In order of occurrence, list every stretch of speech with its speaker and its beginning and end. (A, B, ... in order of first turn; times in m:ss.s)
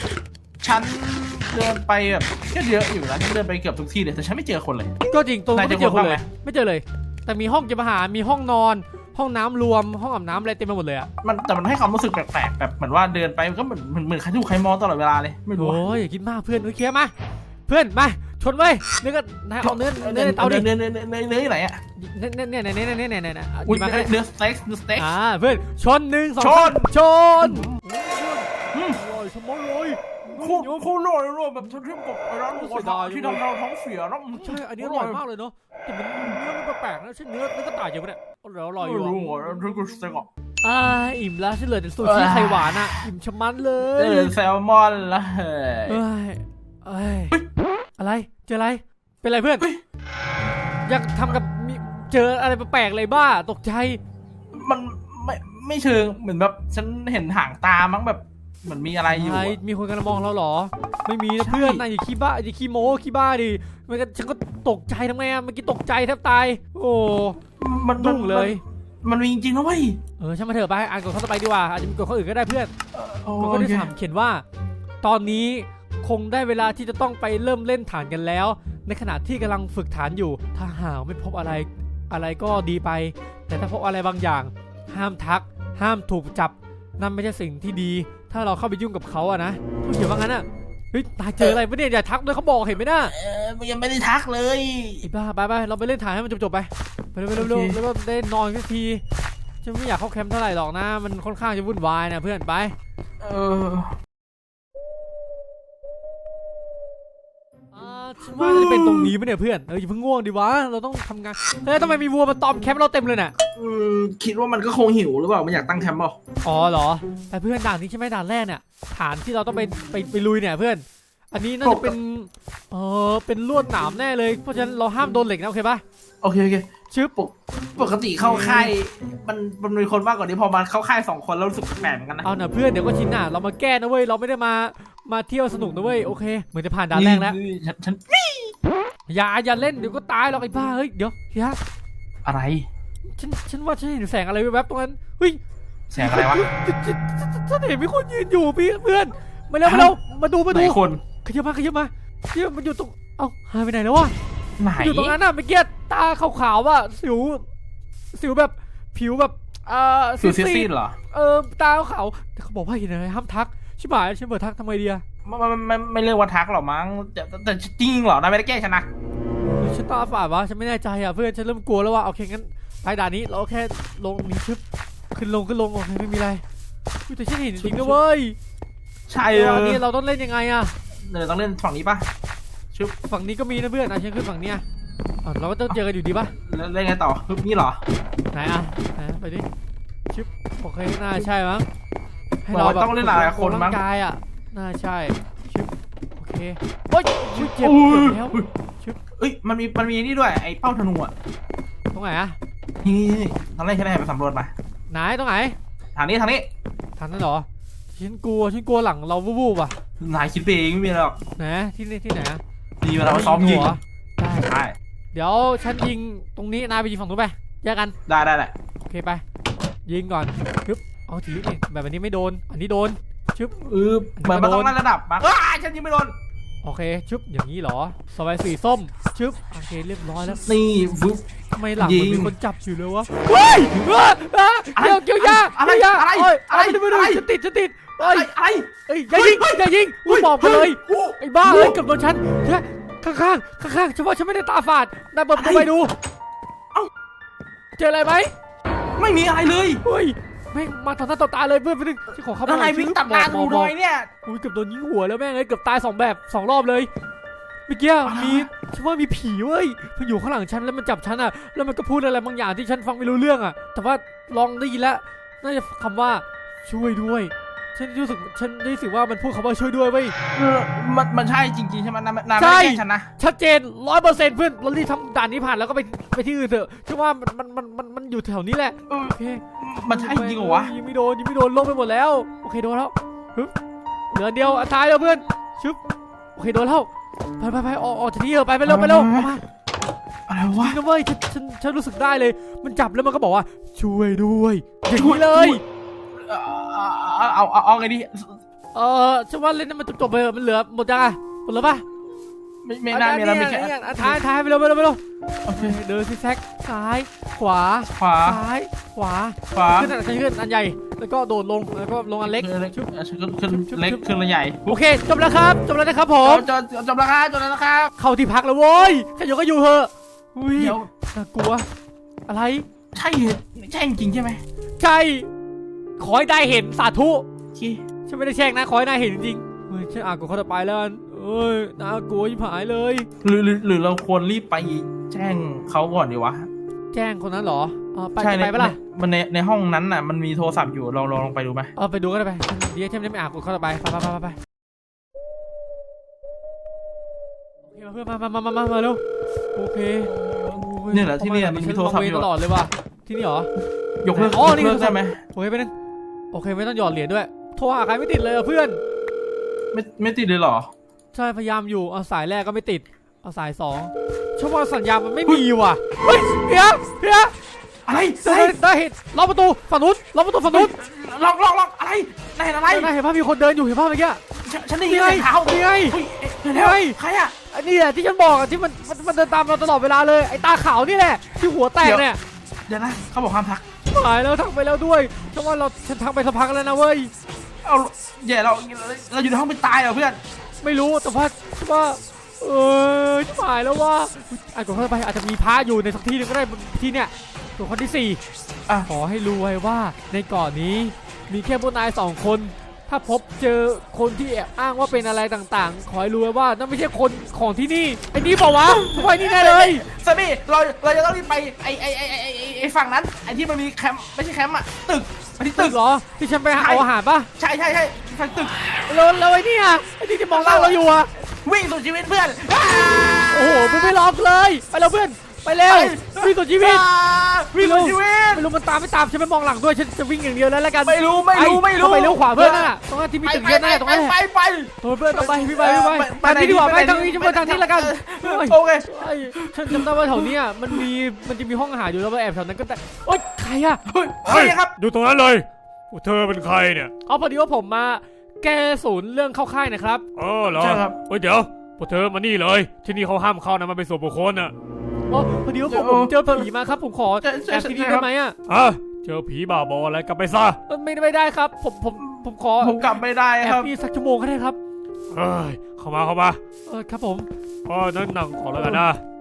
0:00.6-0:05.0 A
0:05.1-0:11.1 B
0:05.5-0:06.2 A
0:11.2-0:15.8 A
0:15.6-0:17.1 B
0:17.7-0:20.7 B
0:19.6-0:21.8 A
0:22.0-0:24.1 B
0:23.7-0:25.1 A
0:25.0-0:30.9 B
0:26.4-0:27.8 A
0:28.7-0:29.0 A
0:30.3-0:35.2 A
0:32.5-0:33.4 B
0:34.4-0:39.2 B
0:38.8-0:40.3 A
0:40.6-0:44.3 B
0:42.0-0:43.0 A
0:44.0-0:46.0 A
0:45.9-0:47.4 B
0:48.0-0:49.7 B
0:50.9-0:54.0 B
0:54.5-0:59.6 A
0:59.1-1:07.4 B
1:01.4-1:01.8 A
1:07.6-1:10.0 A
1:08.0-1:08.6 B
1:10.2-1:12.7 B
1:12.9-1:13.9 A
1:13.4-1:14.4 B
1:15.0-1:33.1 B
1:33.1-1:35.1 A
1:35.0-1:39.0 B
1:37.3-1:37.8 A
1:39.6-1:42.8 B
1:43.2-1:44.0 A
1:47.7-1:53.4 B
1:48.4-1:49.2 A
1:53.5-1:56.2 A
1:56.4-2:05.8 B
2:01.6-2:01.9 A
2:06.2-2:12.3 A
2:08.2-2:08.7 B
2:12.2-2:17.4 B
2:16.9-2:18.5 A
2:19.1-2:21.6 B
2:22.2-2:22.7 A
2:23.2-2:25.4 B
2:25.9-2:26.4 A
2:26.0-2:34.1 B
2:29.6-2:30.0 A
2:30.5-2:31.0 A
2:34.6-2:35.2 A
2:34.8-2:37.4 B
2:38.1-2:45.0 B
2:40.2-2:41.0 A
2:45.2-2:48.9 A
2:49.5-2:54.6 B
2:55.1-2:56.4 B
2:57.1-2:58.4 B
2:57.6-2:58.0 A
2:59.1-2:59.8 A
2:59.3-3:00.7 B
3:01.0-3:02.1 A
3:03.1-3:04.6 B
3:05.2-3:06.3 B
3:06.4-3:07.8 A
3:08.3-3:09.5 B
3:10.1-3:11.7 B
3:12.4-3:19.0 B
3:12.5-3:13.8 A
3:17.4-3:18.5 A
3:19.2-3:21.1 A
3:21.9-3:22.4 B
3:22.8-3:24.5 A
3:24.9-3:25.6 B
3:26.0-3:26.5 A
3:27.0-3:29.8 B
3:30.0-3:31.2 A
3:31.4-3:32.4 B
3:32.8-3:33.8 A
3:33.0-3:34.5 B
3:34.4-3:34.8 A
3:35.1-3:37.9 B
3:38.1-3:38.5 A
3:38.8-3:39.2 B
3:39.9-3:43.6 B
3:43.6-3:46.2 A
3:44.2-3:44.7 B
3:46.6-3:50.4 B
3:50.4-3:51.2 A
3:51.5-3:58.3 B
3:51.8-3:52.3 A
3:54.8-3:57.2 A
3:58.0-4:01.8 A
3:58.9-4:05.9 B
4:05.4-4:05.7 A
4:07.8-4:08.3 B
4:09.0-4:09.8 A
4:09.8-4:13.7 B
4:12.5-4:14.1 A
4:14.2-4:16.9 B
4:17.7-4:30.2 B
4:18.0-4:18.5 A
4:30.3-4:33.1 A
4:32.4-4:43.5 B
4:38.9-4:40.7 A
4:44.1-4:45.8 B
4:46.4-4:46.9 B
4:47.4-4:49.4 B
4:48.6-4:49.3 A
4:50.3-4:50.8 A
4:50.6-4:55.6 B
4:55.0-4:55.6 A
4:56.2-4:58.4 A
4:58.7-5:01.8 B
5:02.6-5:04.2 A
5:02.9-5:05.0 B
5:05.4-5:05.8 A
5:05.5-5:12.9 B
5:07.9-5:08.4 A
5:09.5-5:09.9 A
5:12.4-5:14.8 A
5:13.5-5:14.0 B
5:14.7-5:16.5 B
5:16.2-5:17.9 A
5:18.0-5:21.7 B
5:20.6-5:20.9 A
5:22.3-5:22.7 B
5:22.9-5:24.4 A
5:24.8-5:25.3 B
5:26.0-5:27.2 B
5:27.6-5:27.8 A
5:28.1-5:33.1 B
5:33.2-5:36.5 A
5:36.9-5:38.8 B
5:38.2-5:41.7 A
5:41.8-5:44.4 B
5:47.7-5:49.0 B
5:49.6-5:53.5 B
5:50.1-5:52.3 A
5:54.0-5:55.2 A
5:54.1-5:55.7 B
5:56.3-5:58.8 B
5:59.7-6:00.7 A
6:01.1-6:07.3 B
6:07.9-6:08.6 A
6:08.2-6:10.7 B
6:10.5-6:12.9 A
6:12.7-6:14.2 B
6:14.4-6:17.4 A
6:14.9-6:16.0 B
6:16.5-6:17.0 B
6:17.5-6:22.2 B
6:22.7-6:23.6 A
6:23.9-6:27.1 B
6:27.6-6:30.2 A
6:30.6-6:38.2 B
6:38.9-6:49.9 B
6:48.6-6:55.8 A
6:55.6-6:57.3 B
6:56.6-6:56.9 A
6:57.4-6:58.8 A
6:58.9-7:01.1 B
7:00.3-7:00.8 A
7:01.4-7:04.0 A
7:03.3-7:06.8 B
7:05.6-7:08.5 A
7:07.6-7:14.2 B
7:10.8-7:12.7 A
7:13.2-7:20.8 A
7:14.8-7:23.8 B
7:23.9-7:24.7 A
7:24.3-7:26.9 C
7:27.1-7:30.0 B
7:30.2-7:34.5 C
7:30.5-7:31.0 A
7:35.1-7:38.4 B
7:35.7-7:36.5 A
7:37.2-7:38.1 A
7:38.5-7:40.6 C
7:40.7-7:42.8 B
7:42.0-7:43.7 A
7:43.4-7:44.6 B
7:45.1-7:46.4 C
7:46.7-7:47.3 B
7:47.6-7:49.0 C
7:48.6-7:48.8 A